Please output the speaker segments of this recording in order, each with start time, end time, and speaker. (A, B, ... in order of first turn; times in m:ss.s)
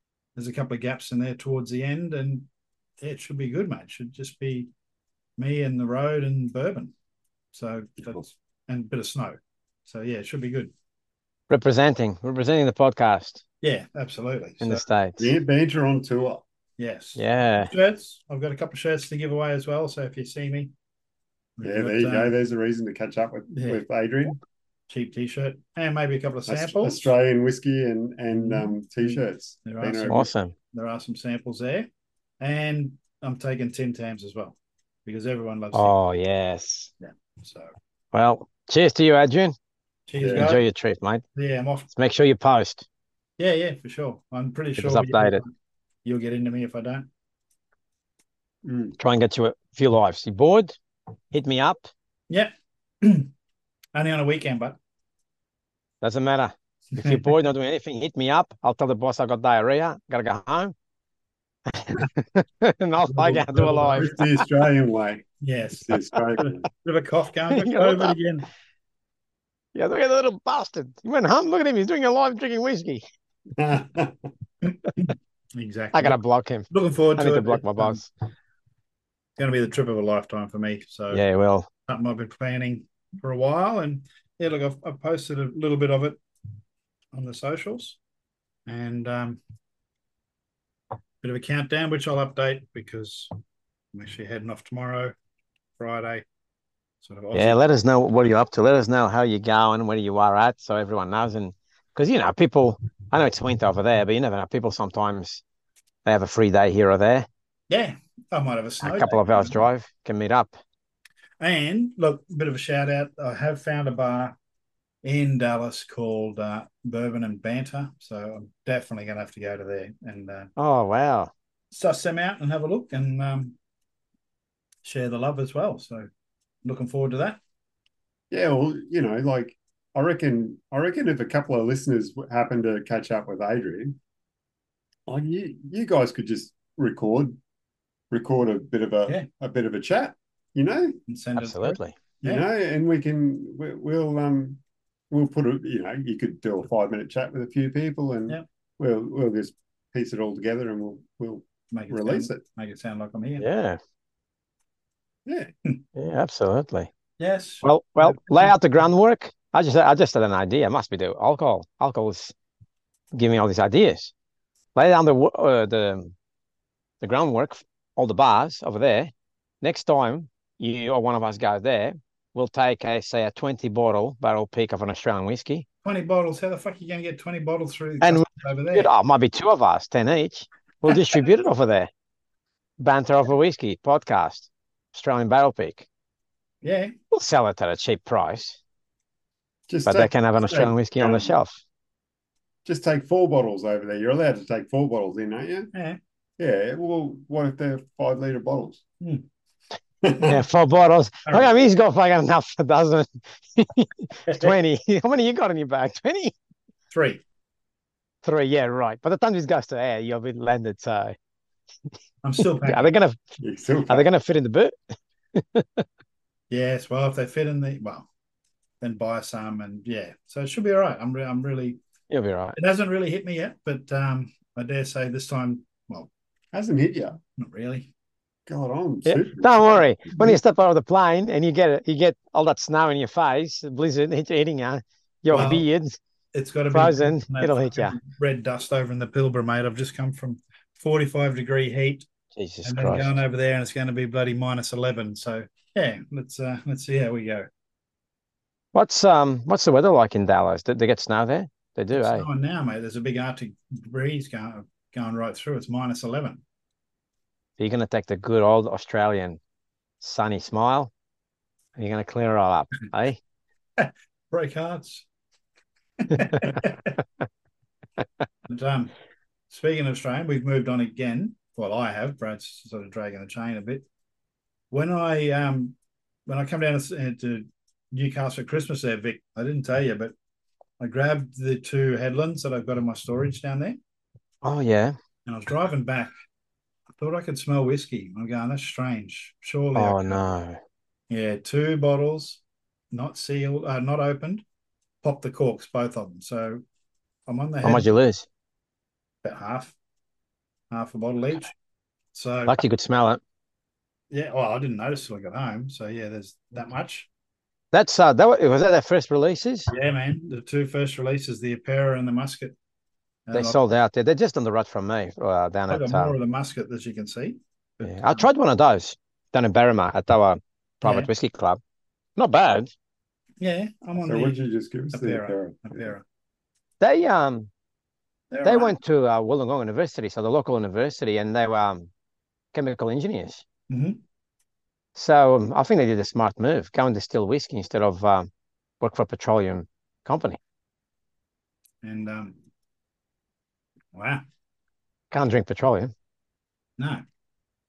0:00.4-0:02.5 A
0:03.0-0:04.7 A
0:05.4-0:06.9 A
0:07.5-0:10.7 A
0:11.5-0:13.4 B
0:13.6-0:14.8 A
0:14.6-0:15.3 B
0:15.2-0:16.4 C
0:16.8-0:20.7 A
0:17.2-0:17.7 B
0:21.6-0:22.4 A
0:21.6-0:24.4 C
0:23.5-0:23.8 A
0:24.9-0:27.1 A
0:26.5-0:30.3 C
0:28.3-0:31.9 A
0:30.1-0:30.5 B
0:32.4-0:35.9 A
0:35.7-0:36.9 B
0:37.0-0:37.7 A
0:38.1-0:39.5 B
0:40.1-0:40.6 A
0:40.2-0:40.5 C
0:40.4-0:41.2 B
0:41.4-0:41.9 A
0:41.9-0:42.8 B
0:43.4-0:45.5 A
0:44.8-0:45.4 B
0:46.0-0:47.1 A
0:48.6-0:49.0 C
0:49.0-0:50.8 B
0:51.3-0:51.9 B
0:52.3-0:53.3 A
0:53.9-0:54.8 A
0:56.0-1:00.7 B
0:56.9-0:57.3 A
1:01.7-1:04.4 B
1:03.1-1:04.0 A
1:03.5-1:05.2 C
1:05.4-1:08.4 A
1:05.9-1:06.7 C
1:07.5-1:08.2 B
1:09.7-1:13.0 B
1:13.6-1:14.3 C
1:14.6-1:16.2 A
1:15.9-1:18.0 B
1:16.7-1:18.0 A
1:19.4-1:21.2 A
1:21.1-1:21.7 B
1:21.9-1:26.2 A
1:27.1-1:28.0 A
1:28.7-1:29.4 A
1:31.2-1:33.3 A
1:33.9-1:35.1 A
1:35.8-1:36.2 A
1:37.0-1:37.6 A
1:37.3-1:45.4 B
1:46.0-1:47.3 B
1:47.7-1:49.6 A
1:48.8-1:50.6 B
1:51.4-1:54.3 A
1:55.0-2:00.5 A
2:00.6-2:01.3 B
2:01.7-2:03.5 A
2:04.8-2:06.1 A
2:06.6-2:07.4 A
2:08.3-2:14.0 C
2:15.1-2:17.4 C
2:18.1-2:21.0 C
2:21.1-2:22.4 A
2:21.4-2:22.0 B
2:22.2-2:32.4 C
2:31.7-2:33.5 A
2:33.4-2:33.8 B
2:35.2-2:35.5 C
2:36.0-2:36.9 B
2:37.2-2:38.5 A
2:37.6-2:42.3 B
2:43.1-2:44.1 B
2:44.7-2:46.1 B
2:47.0-2:55.6 B
2:55.8-2:58.9 A
2:58.0-3:01.9 B
3:02.8-3:05.8 B
3:06.6-3:06.9 A
3:07.1-3:08.6 B
3:09.7-3:11.4 C
3:09.8-3:11.6 B
3:12.6-3:15.7 C
3:15.7-3:16.0 A
3:16.4-3:18.8 C
3:20.0-3:20.4 C
3:20.2-3:26.3 B
3:21.2-3:21.6 A
3:24.2-3:24.5 A
3:26.9-3:27.2 A
3:28.2-3:31.2 B
3:32.2-3:32.9 A
3:32.6-3:33.2 B
3:33.4-3:34.1 C
3:33.9-3:34.7 B
3:35.3-3:35.8 B
3:36.5-3:38.1 A
3:38.8-3:41.8 A
3:42.1-3:42.6 B
3:42.6-3:46.1 A
3:46.5-3:47.2 C
3:47.4-3:47.9 A
3:48.5-3:50.4 C
3:49.0-3:56.0 B
3:55.3-3:55.6 A
3:56.3-4:02.1 A
3:56.7-3:58.0 B
4:02.3-4:03.2 B
4:02.6-4:07.5 A
4:08.7-4:12.3 B
4:11.9-4:16.4 A
4:17.6-4:19.4 B
4:20.0-4:20.9 B
4:21.8-4:23.2 B
4:23.8-4:25.0 A
4:26.0-4:27.0 A
4:28.5-4:28.9 A
4:29.5-4:33.8 A
4:34.7-4:35.8 A
4:36.3-4:40.1 A
4:40.8-4:43.8 A
4:44.4-4:45.0 B
4:45.2-4:46.1 A
4:47.0-4:50.2 A
4:49.7-4:50.6 B
4:51.1-4:54.4 A
4:55.0-4:56.6 A
4:57.3-4:57.9 A
4:57.6-4:58.2 B
4:59.2-4:59.7 A
5:00.7-5:01.5 A
5:02.1-5:02.6 A
5:02.5-5:03.2 B
5:04.1-5:07.1 A
5:07.7-5:09.7 B
5:09.7-5:12.5 A
5:13.3-5:13.6 A
5:13.3-5:16.1 B
5:15.7-5:18.2 A
5:17.8-5:21.6 B
5:20.8-5:21.1 A
5:22.2-5:22.7 B
5:23.4-5:24.4 A
5:24.0-5:25.9 C
5:24.9-5:26.0 A
5:26.8-5:27.5 B
5:28.3-5:28.8 A
5:28.4-5:31.9 B
5:32.5-5:33.4 B
5:33.7-5:34.0 A
5:35.0-5:38.3 B
5:38.8-5:40.4 B
5:41.8-5:42.4 A
5:43.9-5:44.2 A
5:45.1-5:45.9 B
5:46.8-5:47.0 A